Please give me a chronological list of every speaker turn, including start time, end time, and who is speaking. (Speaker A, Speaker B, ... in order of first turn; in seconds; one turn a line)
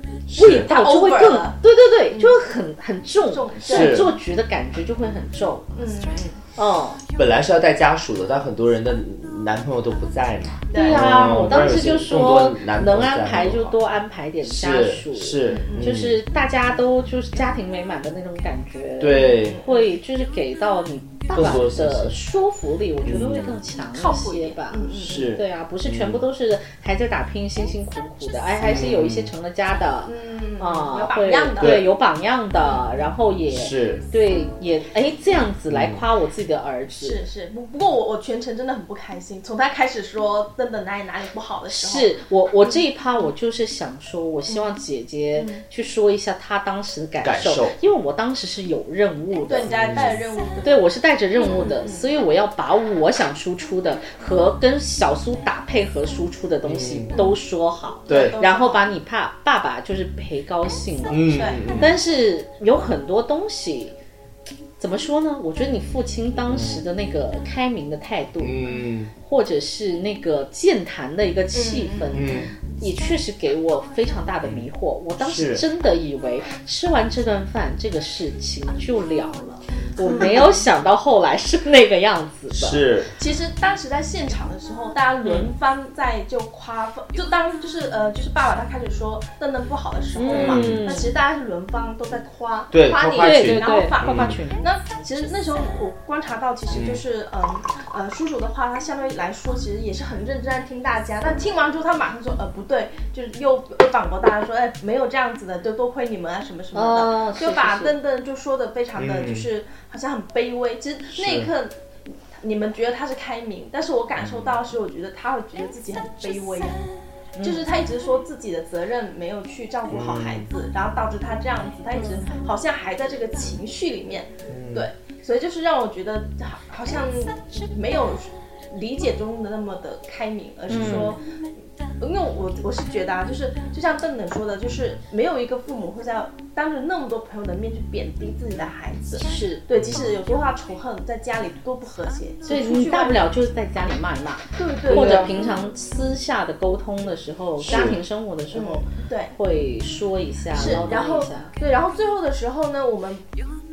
Speaker A: 0.3-0.7
Speaker B: 0.3-5.7
Speaker C: 0.7-2.4
Speaker C: 3.3-4.1
Speaker A: 3.6-4.1
Speaker C: 5.8-6.4
Speaker B: 6.6-7.0
Speaker A: 7.2-13.8
Speaker C: 10.7-11.0
Speaker B: 10.7-37.2
Speaker A: 14.4-16.2
Speaker C: 15.4-16.0
Speaker A: 19.0-19.6
Speaker C: 19.1-19.9
Speaker A: 21.3-22.2
Speaker A: 23.1-23.6
Speaker C: 23.9-25.3
Speaker A: 24.9-26.2
Speaker A: 28.6-29.3
Speaker C: 30.1-31.9
Speaker A: 31.6-31.9
Speaker A: 33.5-34.0
Speaker A: 35.7-36.0
Speaker C: 37.0-42.9
Speaker B: 41.7-50.1
Speaker C: 45.3-45.6
Speaker A: 47.2-47.8
Speaker C: 49.5-50.8
Speaker A: 49.7-50.1
Speaker B: 50.6-64.0
Speaker C: 51.4-52.1
Speaker A: 56.6-57.1
Speaker A: 58.1-58.4
Speaker C: 58.1-58.9
Speaker A: 61.1-61.9
Speaker C: 61.3-61.9
Speaker B: 64.8-82.8
Speaker A: 66.5-66.8
Speaker A: 68.4-69.1
Speaker C: 71.5-72.2
Speaker A: 72.1-72.5
Speaker A: 75.2-75.6
Speaker C: 80.0-80.6
Speaker A: 82.5-83.1
Speaker C: 83.2-111.7
Speaker B: 85.2-85.5
Speaker B: 90.2-91.1
Speaker A: 90.3-90.8
Speaker A: 92.7-94.4
Speaker B: 93.2-94.6
Speaker A: 96.7-97.0
Speaker B: 106.7-108.0
Speaker A: 109.0-109.5
Speaker A: 111.2-111.5
Speaker C: 112.4-116.8
Speaker A: 114.2-114.5
Speaker B: 117.4-117.6
Speaker C: 117.4-131.2
Speaker A: 119.9-120.5
Speaker A: 124.5-124.9
Speaker B: 130.7-131.2
Speaker A: 130.7-131.1
Speaker C: 132.0-143.3
Speaker B: 139.2-139.6
Speaker A: 139.8-140.0
Speaker B: 142.4-151.5
Speaker C: 144.6-145.6
Speaker A: 144.9-145.2
Speaker A: 147.6-148.0
Speaker C: 147.7-148.0
Speaker C: 148.5-149.3
Speaker C: 150.5-153.2
Speaker A: 150.6-150.9